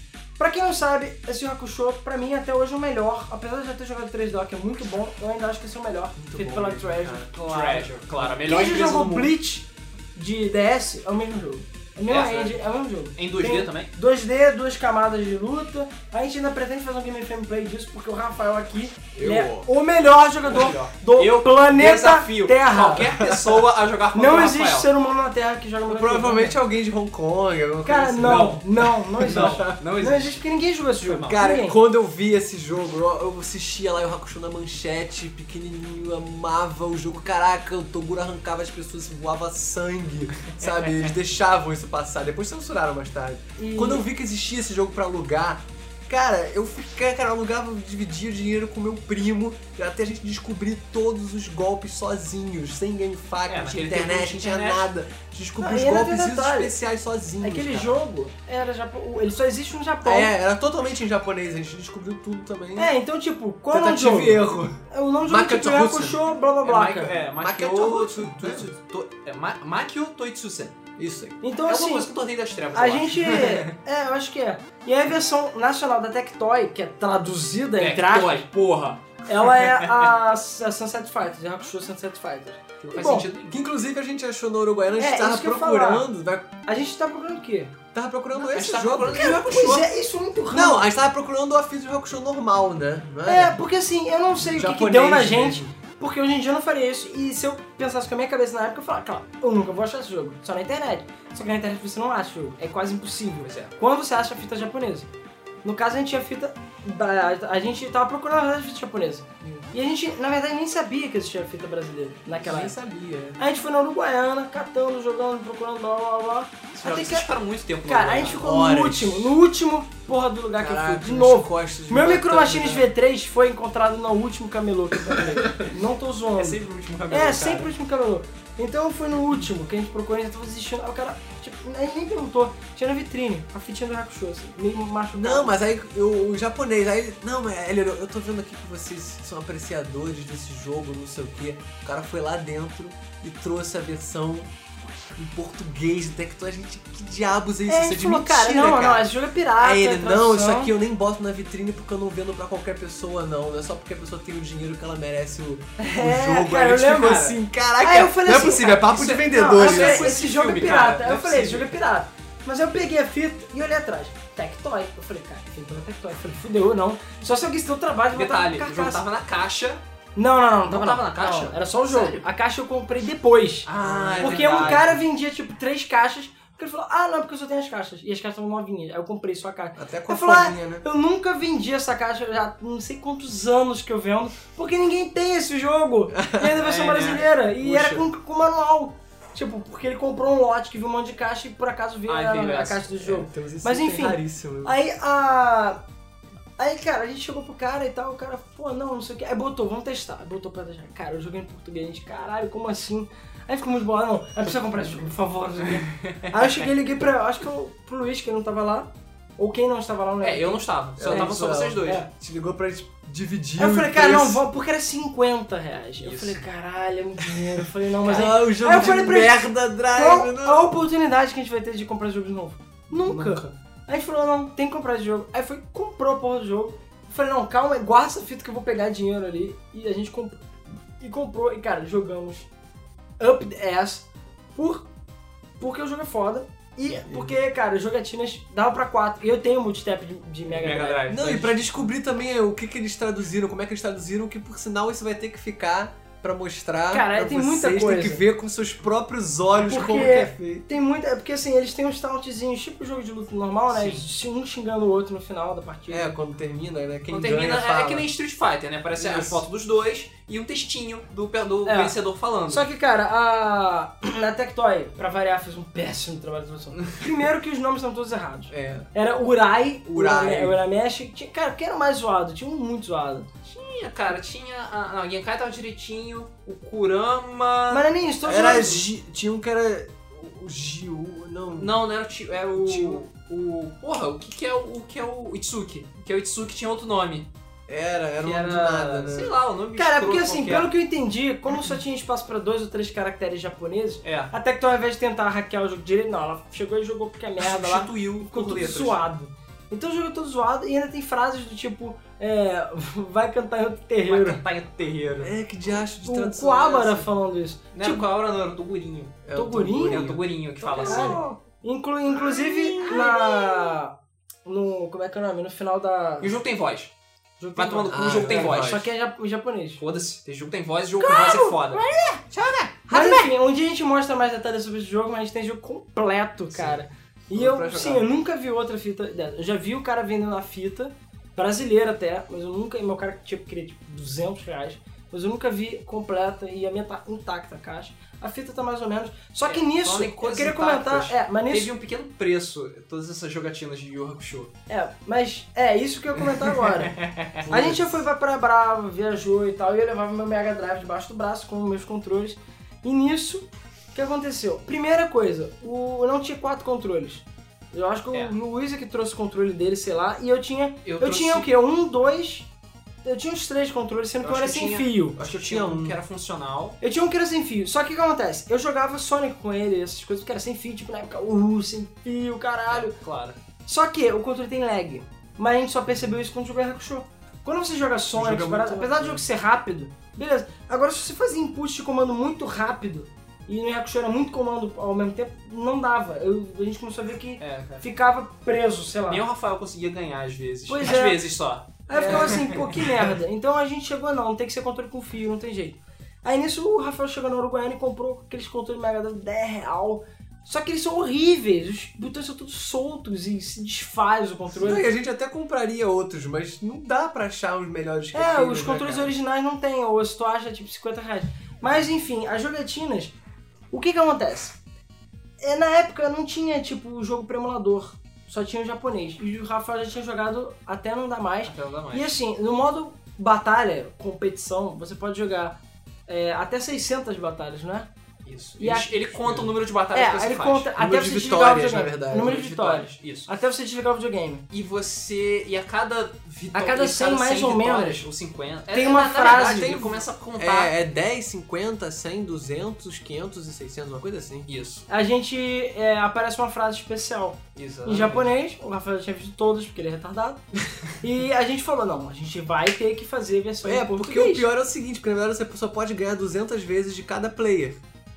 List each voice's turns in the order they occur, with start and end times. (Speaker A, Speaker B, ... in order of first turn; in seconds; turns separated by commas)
Speaker A: 0.4-23.1, Speaker B: 6.2-7.3, Speaker C: 7.4-9.3, Speaker C: 12.1-12.6, Speaker C: 13.2-13.9, Speaker B: 19.1-19.7, Speaker C: 20.4-24.9, Speaker B: 23.1-23.7, Speaker A: 24.1-26.6, Speaker B: 25.9-28.6, Speaker A: 27.9-31.8, Speaker C: 28.2-30.4, Speaker B: 29.1-29.8, Speaker C: 31.0-31.4, Speaker B: 31.3-58.0, Speaker A: 43.6-44.1, Speaker C: 53.5-54.9, Speaker A: 55.6-56.7, Speaker A: 57.4-60.3, Speaker B: 60.0-62.9, Speaker A: 62.8-67.2, Speaker B: 63.7-66.2, Speaker C: 66.6-70.8, Speaker B: 67.4-68.7, Speaker B: 71.0-71.4, Speaker A: 71.4-72.1, Speaker C: 71.7-73.7, Speaker A: 72.7-78.5, Speaker C: 77.8-79.9, Speaker A: 79.3-83.3, Speaker C: 82.8-83.6, Speaker B: 83.5-86.5, Speaker A: 85.0-86.1, Speaker A: 86.7-87.8, Speaker B: 87.9-89.4, Speaker C: 88.4-89.9, Speaker A: 89.1-90.8, Speaker B: 90.5-93.6, Speaker A: 93.3-105.1, Speaker B: 94.4-95.7, Speaker C: 103.4-103.7, Speaker A: 105.6-112.7, Speaker B: 112.4-113.4, Speaker A: 113.4-117.3, Speaker C: 116.8-118.4, Speaker A: 117.9-126.6, Speaker B: 118.4-119.3, Speaker B: 120.6-122.9, Speaker B: 125.1-125.5, Speaker C: 126.4-127.7, Speaker A: 127.1-135.6, Speaker B: 135.1-144.5, Speaker B: 145.1-149.1, Speaker A: 147.7-150.7, Speaker B: 149.6-160.1, Speaker A: 155.8-169.0, Speaker C: 158.9-161.7, Speaker C: 168.1-169.8, Speaker A: 170.2-173.7, Speaker C: 170.7-172.2, Speaker C: 173.7-174.9, Speaker B: 173.8-175.0, Speaker A: 174.2-195.8, Speaker B: 179.8-180.8, Speaker B: 186.1-186.6, Speaker C: 186.6-188.0, Speaker C: 192.1-192.9, Speaker B: 193.0-194.8, Speaker A: 196.6-212.1, Speaker C: 205.8-206.3, Speaker C: 210.2-212.0, Speaker B: 211.0-214.4, Speaker A: 213.6-230.4, Speaker C: 216.0-216.4, Speaker B: 217.3-220.7, Speaker B: 222.9-223.5, Speaker A: 231.0-232.5, Speaker A: 233.2-234.9, Speaker A: 235.6-241.1, Speaker B: 237.1-237.4, Speaker C: 240.5-241.7, Speaker B: 241.1-250.7, Speaker A: 246.9-248.2, Speaker A: 249.6-256.2, Speaker C: 253.7-254.1, Speaker B: 255.9-258.1, Speaker C: 257.1-262.7, Speaker B: 259.0-259.4, Speaker A: 261.7-261.9, Speaker A: 262.5-273.3, Speaker B: 268.5-268.9, Speaker B: 269.9-270.6, Speaker C: 273.5-277.9, Speaker A: 277.7-278.8, Speaker B: 278.2-281.8, Speaker C: 281.6-287.3, Speaker B: 282.6-283.0, Speaker B: 287.7-289.4, Speaker C: 288.2-290.7, Speaker A: 289.8-304.4, Speaker C: 294.0-294.3, Speaker C: 297.4-299.0, Speaker C: 304.1-305.3, Speaker B: 305.2-307.1, Speaker A: 306.0-308.1, Speaker C: 307.7-309.2, Speaker B: 309.2-311.2, Speaker A: 309.3-310.1, Speaker C: 309.9-311.2, Speaker A: 310.6-313.9, Speaker B: 312.1-313.7, Speaker A: 314.4-316.3, Speaker C: 316.2-316.9, Speaker A: 317.4-319.8, Speaker C: 317.6-318.9, Speaker B: 317.9-318.9, Speaker C: 319.8-321.8, Speaker A: 321.0-322.2, Speaker B: 322.3-323.3, Speaker A: 322.9-341.7, Speaker C: 326.5-326.8, Speaker B: 327.3-328.0, Speaker C: 339.5-344.5, Speaker A: 344.7-347.0, Speaker C: 346.4-347.4, Speaker B: 347.4-348.1, Speaker A: 347.5-362.5, Speaker C: 360.9-361.5, Speaker A: 363.1-365.2, Speaker C: 364.2-366.8, Speaker B: 365.2-366.0, Speaker A: 366.8-373.0, Speaker C: 372.7-373.4, Speaker A: 373.6-389.2, Speaker B: 378.1-379.2, Speaker C: 387.4-387.8, Speaker C: 389.1-392.9, Speaker A: 390.7-391.2, Speaker A: 391.9-404.9, Speaker B: 391.9-392.5, Speaker B: 404.6-409.1, Speaker A: 408.1-413.1, Speaker A: 413.7-414.6, Speaker A: 415.4-427.9, Speaker C: 421.4-422.1, Speaker C: 428.3-430.7, Speaker A: 428.6-429.4, Speaker B: 429.2-429.5, Speaker A: 429.9-434.4, Speaker B: 430.8-432.4, Speaker C: 432.1-433.3, Speaker C: 434.5-440.7, Speaker A: 436.5-438.1, Speaker A: 438.7-439.8, Speaker B: 439.3-444.5, Speaker C: 444.5-444.9, Speaker A: 444.9-454.5, Speaker C: 447.6-448.3, Speaker B: 453.6-457.8